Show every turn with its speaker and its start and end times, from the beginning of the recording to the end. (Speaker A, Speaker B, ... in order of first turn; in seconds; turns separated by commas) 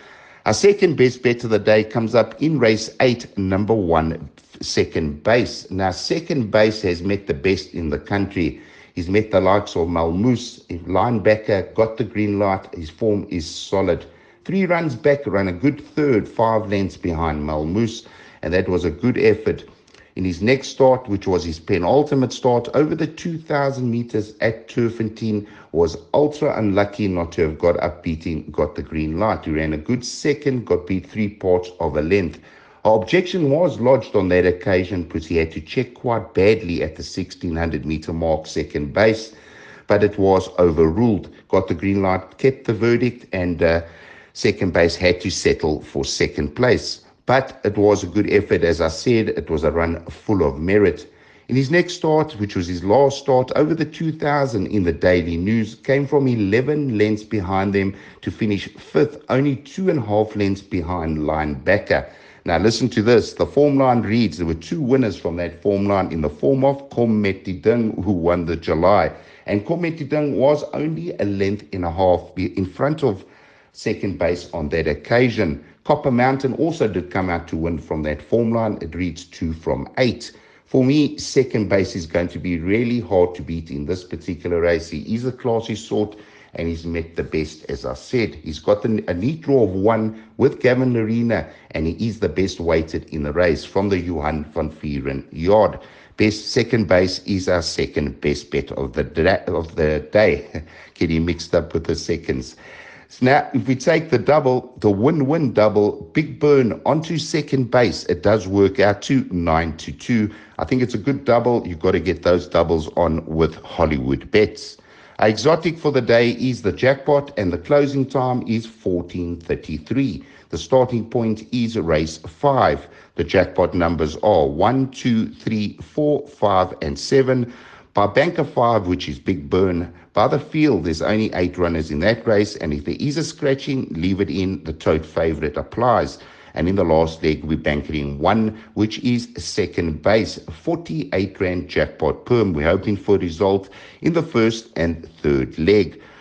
Speaker A: 0.4-39.3, Speaker A: 39.9-102.6, Speaker A: 103.1-146.0